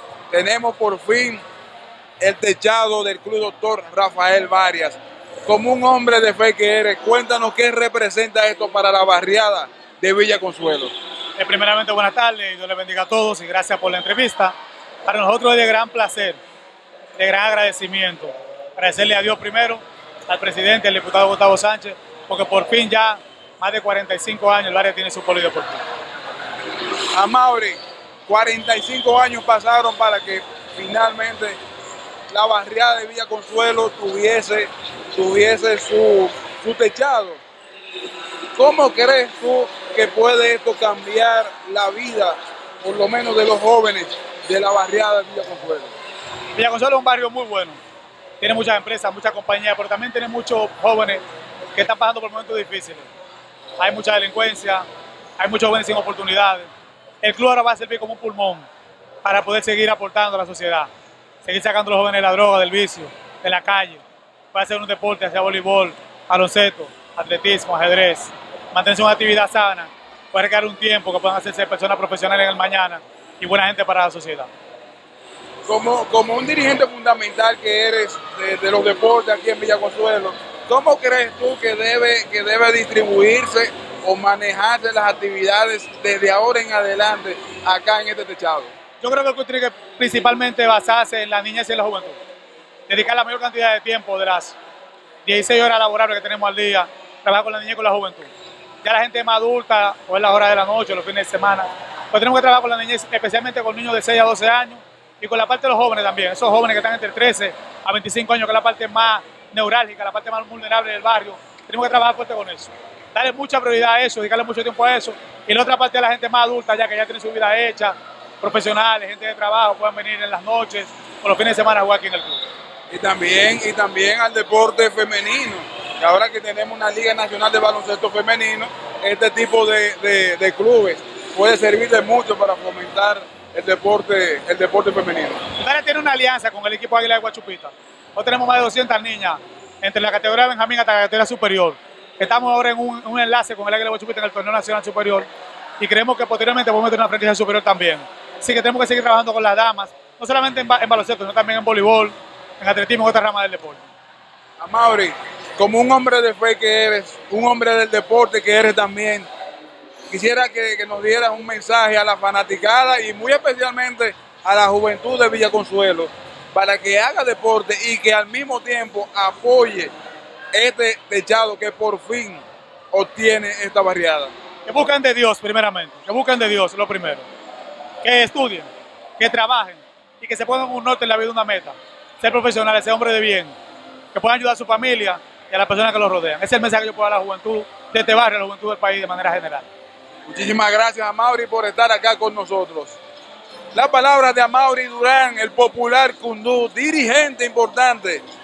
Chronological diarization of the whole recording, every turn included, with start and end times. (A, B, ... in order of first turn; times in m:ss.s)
0:00.3-0:01.4 A
0:02.2-0:10.9 A
0:11.4-0:14.6 B
0:15.1-0:16.4 B
0:17.2-0:25.8 B
0:26.9-0:31.6 A
0:32.3-0:37.4 A
0:38.6-0:45.9 A
0:46.5-0:47.8 B
0:48.4-0:53.1 B
0:53.8-0:54.9 B
0:55.4-0:56.7 B
0:57.2-0:58.7 B
0:59.2-1:00.9 B
1:01.4-1:14.5 B
1:15.6-1:28.8 A
1:29.0-1:32.2 B
1:32.9-1:34.6 B
1:35.2-1:38.3 B
1:38.8-2:02.4 B
2:02.9-2:15.4 A
2:15.6-2:25.3 B
2:25.8-2:33.9 B
2:34.6-2:39.3 A
2:40.1-2:49.9 A
2:50.5-2:54.3 A
2:54.7-2:57.3 B
2:58.0-3:03.6 B
3:04.1-3:09.7 B
3:10.3-3:13.0 A
3:13.7-3:18.2 A